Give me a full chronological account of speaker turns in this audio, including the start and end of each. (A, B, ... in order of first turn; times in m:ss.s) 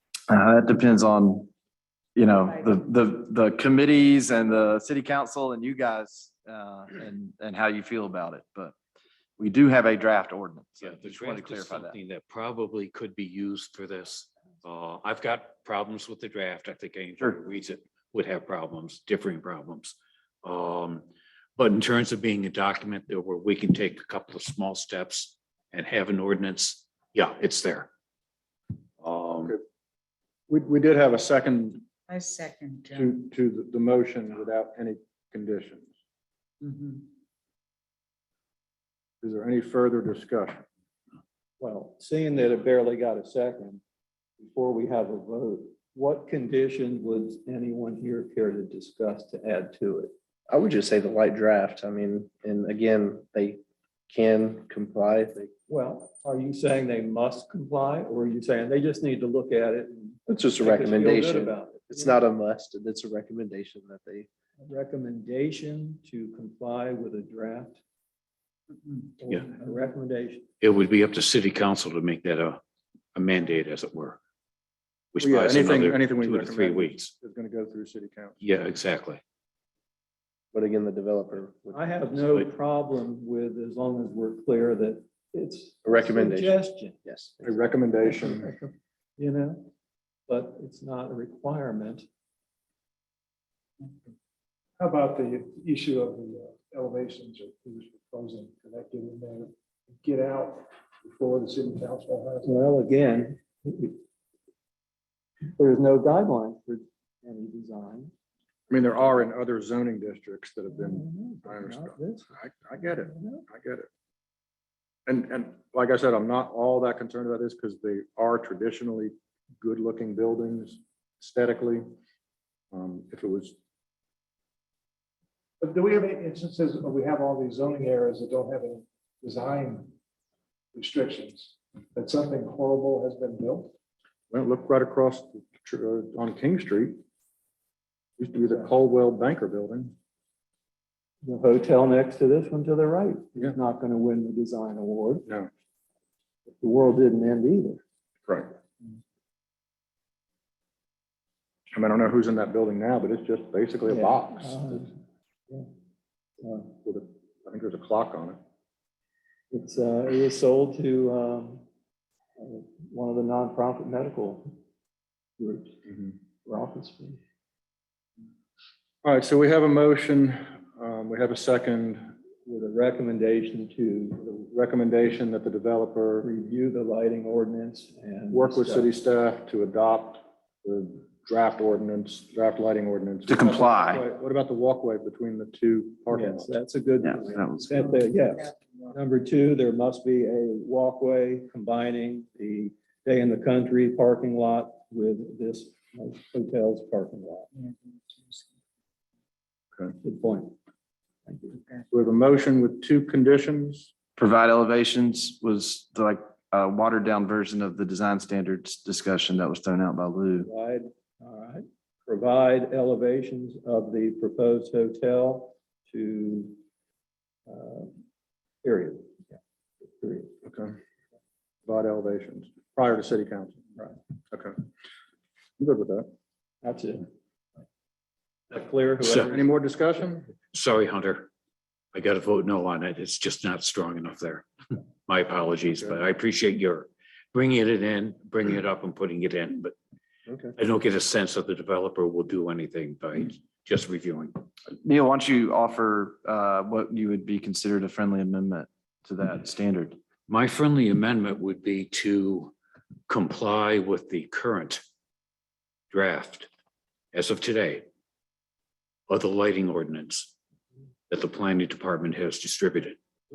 0:00.3-0:01.5 A
0:02.2-0:08.7 A
0:09.4-0:11.9 A
0:10.8-0:27.9 B
0:29.0-0:29.5 B
0:30.5-0:31.8 C
0:32.1-0:33.1 D
0:32.9-0:35.9 C
0:36.6-0:37.0 D
0:39.2-0:40.6 C
0:41.6-0:43.8 E
0:44.4-0:50.1 E
0:50.5-0:55.5 F
0:55.7-1:02.2 E
1:00.3-1:04.3 F
1:04.6-1:07.8 E
1:09.2-1:10.4 E
1:10.6-1:12.6 B
1:13.1-1:14.2 B
1:15.1-1:17.1 B
1:15.2-1:18.4 C
1:18.4-1:19.2 B
1:20.5-1:22.5 F
1:21.7-1:29.7 E
1:25.8-1:27.3 F
1:27.4-1:28.5 C
1:30.3-1:32.0 E
1:34.8-1:42.6 G
1:42.4-1:44.0 E
1:45.5-1:48.1 E
1:48.7-1:53.9 C
1:50.7-1:53.4 E
1:55.1-2:01.8 C
2:02.7-2:03.6 C
2:05.6-2:09.9 G
2:10.7-2:13.7 G
2:14.3-2:17.0 C
2:18.2-2:19.9 C
2:21.2-2:25.2 E
2:26.5-2:27.8 E
2:31.7-2:34.8 C
2:33.9-2:34.9 E
2:36.4-2:36.7 E
2:36.8-2:38.4 C
2:39.5-2:41.6 E
2:42.4-2:44.5 E
2:45.4-2:45.8 E
2:46.4-2:47.2 E
2:49.0-2:52.1 C
2:52.4-2:54.2 E
2:54.2-2:56.3 C
2:56.2-2:58.9 E
2:58.3-3:06.5 C
3:03.3-3:04.0 A
3:06.1-3:17.5 E
3:07.0-3:07.8 A
3:17.6-3:18.4 D
3:20.0-3:20.5 E
3:21.2-3:21.6 E
3:21.9-3:23.9 C
3:24.2-3:30.5 A
3:30.4-3:36.6 E
3:37.4-3:37.9 E
3:38.6-3:39.2 E
3:39.8-3:40.3 E
3:40.4-3:40.7 C
3:41.6-3:43.7 C
3:45.6-3:46.1 C
3:46.6-3:47.1 E
3:48.5-3:49.5 E
3:49.2-3:50.3 C
3:50.5-3:51.3 B
3:51.9-3:54.4 B
3:55.0-3:59.7 B
4:00.6-4:04.4 B
4:04.8-4:10.0 A
4:10.3-4:12.5 B
4:13.1-4:14.8 B
4:15.9-4:16.5 B
4:17.1-4:17.8 B
4:19.1-4:20.3 B
4:21.1-4:23.0 B